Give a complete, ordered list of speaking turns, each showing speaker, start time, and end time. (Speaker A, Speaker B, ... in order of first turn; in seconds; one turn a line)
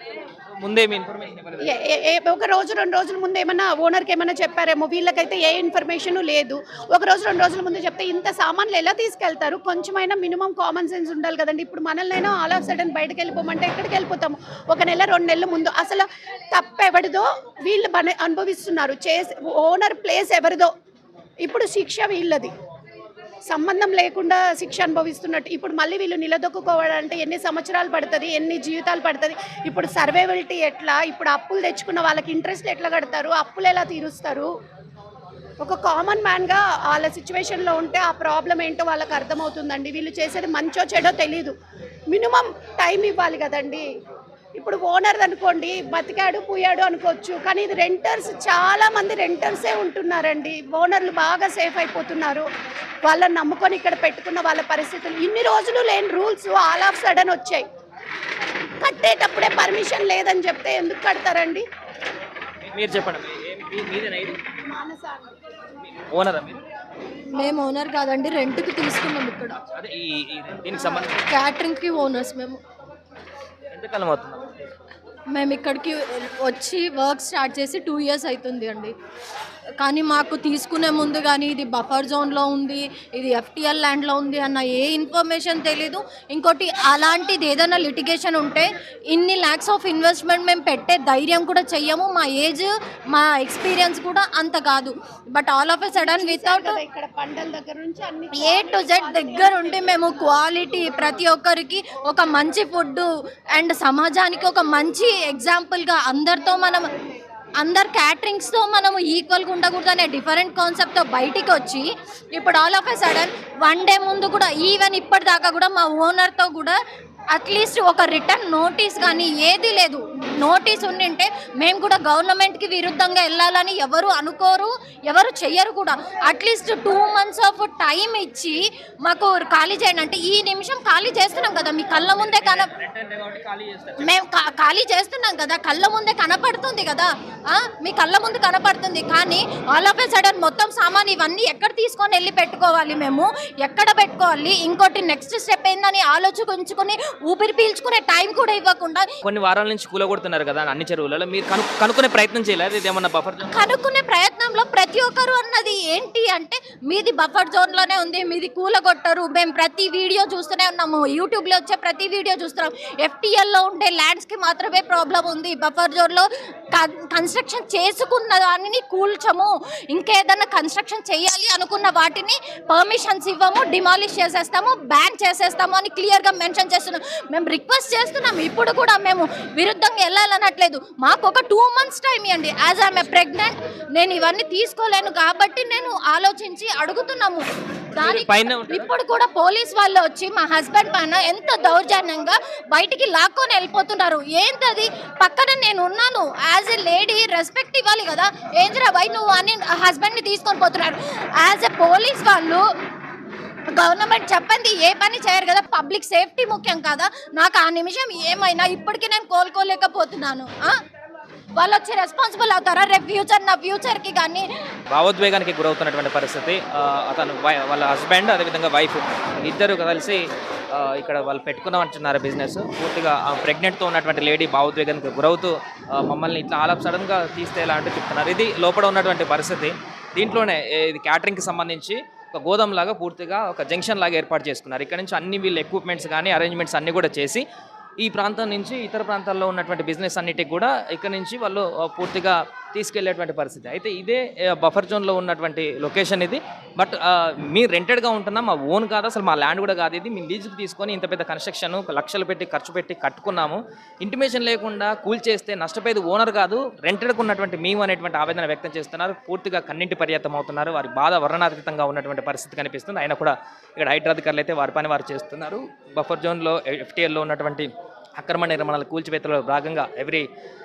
Speaker A: 0.6-1.7
Speaker B: 1.6-20.7
Speaker B: 21.4-22.5
Speaker B: 23.5-34.5
Speaker B: 35.6-41.5
Speaker B: 42.1-43.8
Speaker B: 44.6-52.5
Speaker B: 53.0-57.7
Speaker B: 58.8-61.6
Speaker A: 62.7-64.4
Speaker B: 64.6-65.3
Speaker A: 65.9-66.6
Speaker C: 67.3-69.6
Speaker A: 69.7-71.2
Speaker C: 70.7-72.6
Speaker A: 73.7-74.5
Speaker C: 75.3-78.9
Speaker C: 79.8-96.8
Speaker B: 95.9-99.9
Speaker C: 98.3-106.9
Speaker C: 107.6-116.8
Speaker C: 117.3-132.7
Speaker A: 132.2-134.1
Speaker C: 134.0-149.1
Speaker A: 149.2-153.7
Speaker C: 153.5-187.4
Speaker C: 187.9-202.6
Speaker A: 188.0-188.8
Speaker C: 203.8-210.7
Speaker C: 211.6-214.5
Speaker A: 214.9-237.4
Speaker A: 238.0-270.2